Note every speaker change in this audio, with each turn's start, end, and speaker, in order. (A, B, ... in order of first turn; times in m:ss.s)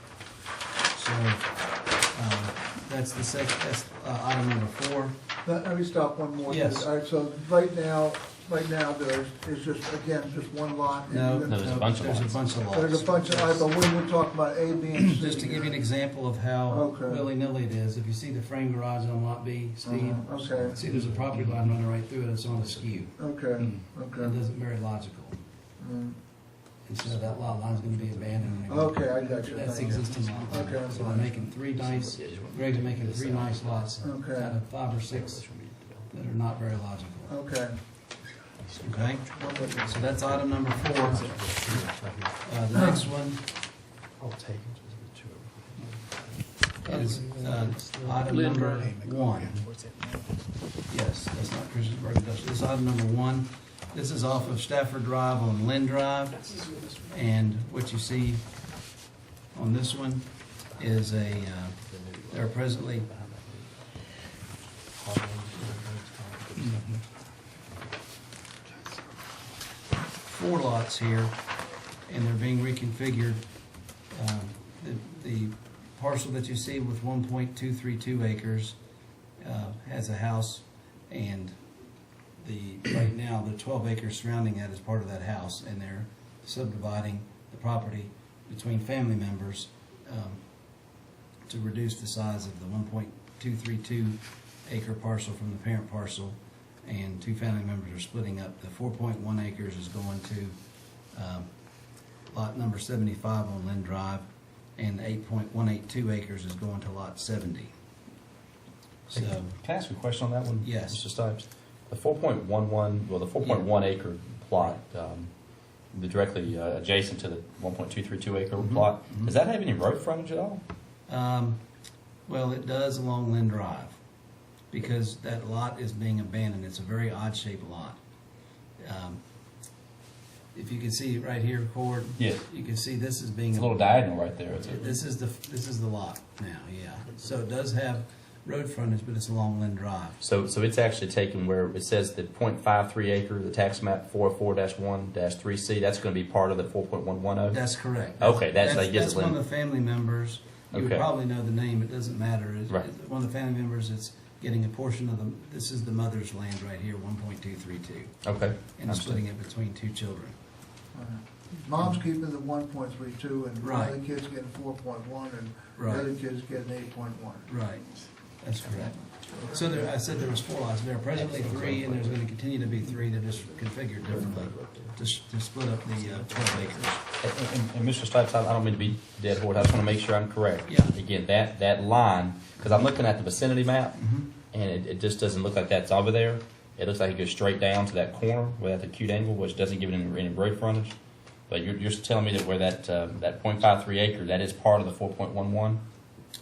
0:00.9-0:01.5 A
0:02.1-0:05.1 A
0:05.4-0:11.6 B
0:06.5-0:06.9 A
0:11.1-0:13.7 A
0:11.5-0:12.4 C
0:12.7-0:15.9 B
0:15.0-0:23.1 A
0:16.7-0:17.2 B
0:19.8-0:20.8 B
0:20.5-0:21.8 D
0:22.6-0:23.0 D
0:23.2-0:24.4 B
0:23.6-0:23.9 D
0:24.2-0:25.4 A
0:25.8-0:26.2 B
0:26.9-0:35.4 A
0:27.0-0:32.3 D
0:28.7-0:31.4 B
0:32.1-0:34.0 C
0:34.0-0:34.6 B
0:34.8-0:36.1 C
0:36.1-0:37.3 A
0:37.3-0:37.8 B
0:38.6-0:42.4 D
0:38.8-0:41.5 A
0:39.4-0:39.9 B
0:42.4-0:43.4 A
0:44.2-0:50.4 D
0:46.8-0:49.6 A
0:50.9-0:58.4 A
0:56.5-0:57.0 D
0:59.5-1:01.8 A
1:00.7-1:03.8 D
1:02.3-1:03.1 A
1:04.9-1:07.0 D
1:10.2-1:11.4 A
1:12.1-1:13.4 A
1:14.1-1:18.8 A
1:19.4-1:21.6 A
1:22.4-1:30.4 A
1:31.5-1:40.6 A
1:41.1-1:41.5 A
1:42.3-1:44.2 A
1:44.8-1:47.7 A
1:49.1-1:49.6 A
1:49.1-1:55.3 C
1:50.6-1:51.0 A
1:55.9-2:00.6 C
1:58.6-1:59.3 A
2:01.1-2:01.6 A
2:02.2-2:04.0 A
2:04.7-2:08.0 A
2:08.8-2:09.2 A
2:10.5-2:13.8 A
2:13.5-2:14.9 C
2:14.6-2:20.2 A
2:20.2-2:27.7 C
2:27.5-2:38.2 A
2:28.2-2:29.4 C
2:30.7-2:31.1 C
2:38.2-2:39.2 C
2:38.8-2:40.3 A
2:40.9-2:47.5 B
2:43.6-2:44.0 A
2:45.8-2:46.1 A
2:47.5-2:57.0 A
2:49.0-2:50.0 B
2:51.1-2:52.3 D
2:52.9-2:55.0 D
2:55.8-2:57.0 D
2:57.2-3:04.0 C
3:00.7-3:00.9 A
3:04.0-3:04.3 A
3:04.5-3:11.0 C
3:11.5-3:15.8 C